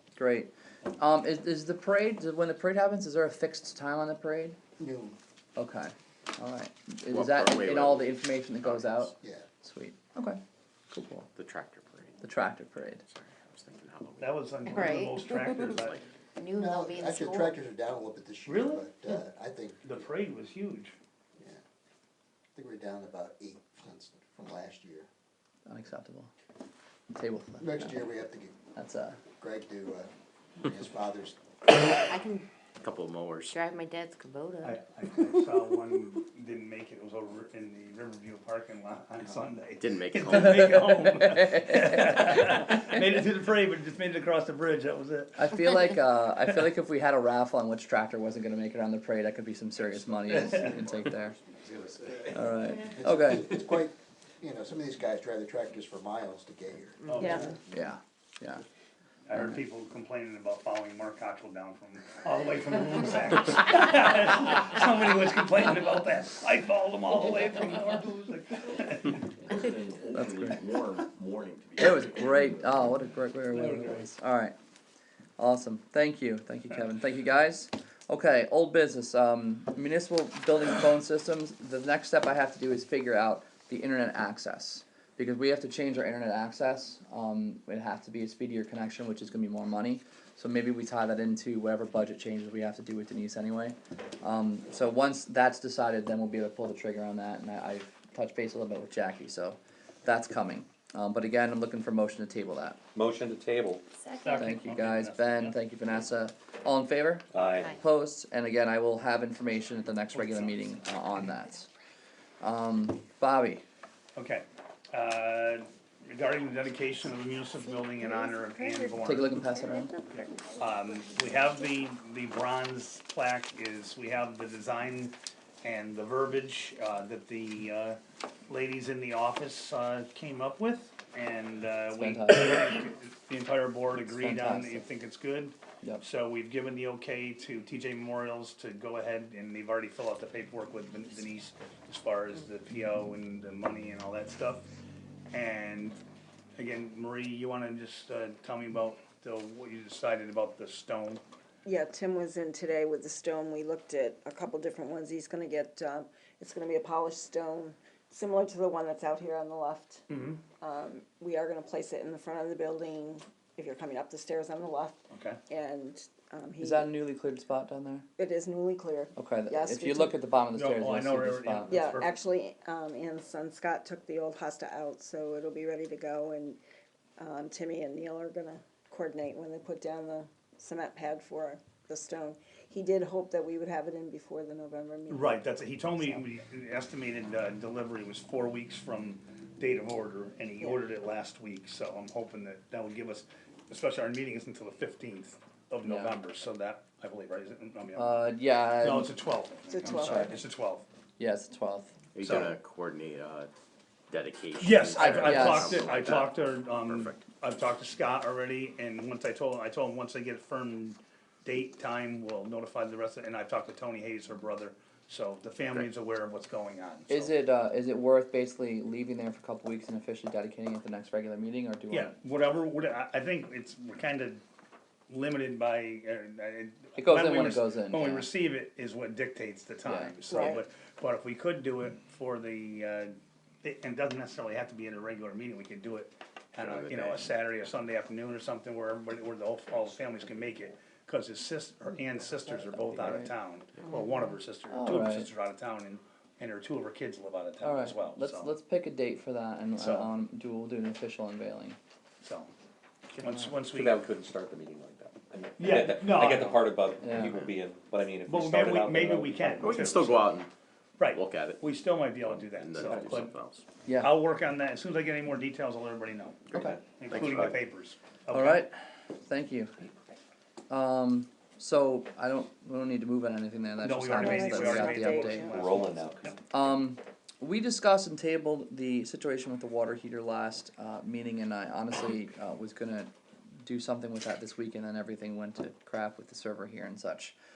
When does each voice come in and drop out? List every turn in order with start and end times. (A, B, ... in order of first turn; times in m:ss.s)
0:00.2-0:04.6 A
0:04.8-0:05.2 B
0:05.6-0:10.4 A
0:07.1-0:09.0 C
0:09.1-0:09.5 B
0:10.9-0:11.3 A
0:11.3-0:12.2 C
0:12.2-0:13.0 A
0:13.1-0:14.6 C
0:14.2-0:16.0 D
0:14.6-0:15.7 E
0:15.6-0:16.1 C
0:16.4-0:17.6 E
0:16.5-0:20.0 B
0:18.4-0:18.9 D
0:19.8-0:20.9 D
0:22.6-0:25.1 B
0:25.7-0:26.3 A
0:27.1-0:28.1 A
0:27.6-0:28.5 B
0:28.7-0:29.2 A
0:29.4-0:31.4 B
0:32.1-0:32.5 E
0:32.8-0:33.6 C
0:33.5-0:34.8 E
0:34.6-0:45.9 D
0:39.8-0:41.0 C
0:40.5-0:42.8 A
0:45.4-0:51.4 A
0:51.8-0:52.3 B
0:52.3-0:53.6 A
0:52.9-0:57.2 B
0:57.0-0:57.6 D
0:57.2-0:57.5 F
0:57.7-0:58.6 A
0:59.3-1:09.6 D
1:09.5-1:12.4 G
1:10.1-1:10.6 A
1:11.8-1:14.5 A
1:13.5-1:14.1 D
1:15.4-1:42.8 A
1:42.9-1:43.9 G
1:43.9-1:44.4 E
1:44.1-1:45.6 D
1:44.3-1:51.7 A
1:47.3-1:47.8 G
1:50.1-1:50.8 D
1:52.4-1:53.6 A
1:54.2-1:59.5 D
1:59.0-1:59.9 A
2:00.3-2:00.6 E
2:00.5-2:24.6 D
2:11.9-2:12.6 A
2:14.0-2:14.8 A
2:25.3-2:26.0 D
2:26.6-2:31.2 D
2:31.6-2:40.0 F
2:40.1-2:40.4 D
2:40.6-2:47.0 F
2:45.1-2:45.4 D
2:46.6-2:48.1 A
2:48.2-2:50.2 F
2:49.2-2:51.8 A
2:50.5-2:52.2 D
2:51.7-2:56.6 F
2:57.2-3:06.2 F
3:05.1-3:20.8 D
3:15.8-3:16.1 A
3:18.0-3:19.1 A
3:19.7-3:20.4 F
3:19.9-3:20.3 A
3:21.2-3:21.9 A
3:22.1-3:23.5 C
3:22.2-3:22.6 D
3:24.1-3:27.2 C
3:24.6-3:37.4 D
3:25.0-3:25.9 A
3:37.1-3:42.1 A
3:41.9-3:44.4 D
3:45.1-4:08.5 D
3:47.0-3:48.3 A
3:49.8-3:50.2 A
3:50.3-3:50.6 F
3:56.6-3:57.3 C
4:02.7-4:03.3 A
4:04.7-4:05.3 A
4:07.6-4:11.8 A
4:09.8-4:10.1 D
4:12.2-4:12.5 D
4:13.1-4:14.1 D
4:13.2-4:19.8 G
4:15.6-4:16.8 D
4:17.0-4:17.3 A
4:17.2-4:17.5 C
4:18.3-4:20.4 D
4:19.6-4:20.5 C
4:21.0-4:23.4 D
4:21.1-4:23.6 C
4:22.8-4:23.2 G
4:23.8-4:24.2 A
4:23.9-4:28.6 D
4:26.6-4:26.8 G
4:27.1-4:27.6 C
4:28.3-4:29.7 A
4:30.7-4:35.4 A
4:33.8-4:36.4 D
4:34.1-4:35.6 F
4:35.5-4:36.3 G
4:36.5-4:43.1 A
4:43.6-4:47.3 A